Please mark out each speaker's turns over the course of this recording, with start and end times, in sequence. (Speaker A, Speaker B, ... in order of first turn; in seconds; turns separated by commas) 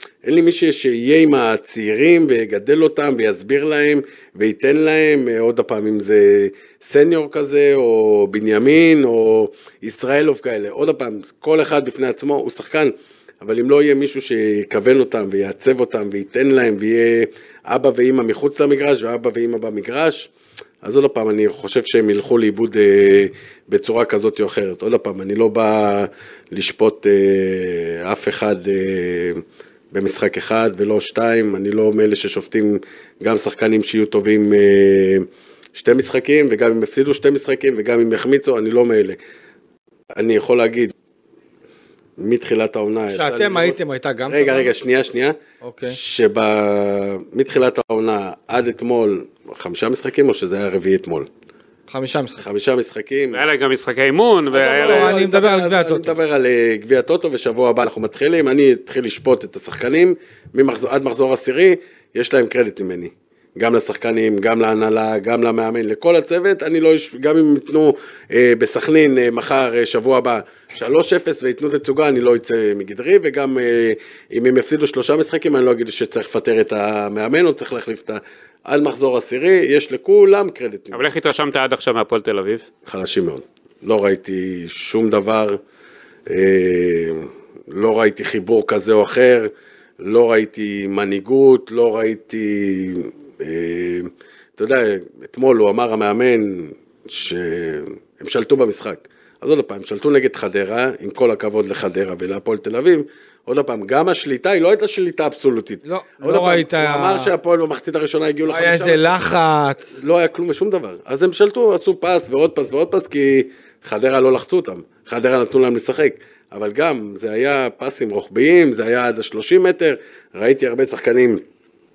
Speaker A: 0.2-20.3, Speaker A: 20.8-39.2, Speaker A: 40.2-40.9, Speaker A: 42.2-43.8, Speaker B: 43.1-44.7, Speaker A: 44.3-51.3, Speaker B: 45.6-46.0, Speaker B: 51.9-52.4, Speaker A: 52.4-53.4, Speaker C: 53.3-55.2, Speaker A: 54.5-81.0, Speaker B: 54.8-56.1, Speaker C: 80.9-82.7, Speaker A: 82.8-85.6, Speaker A: 86.3-109.1, Speaker B: 105.8-107.3, Speaker B: 108.5-110.0, Speaker A: 109.9-121.4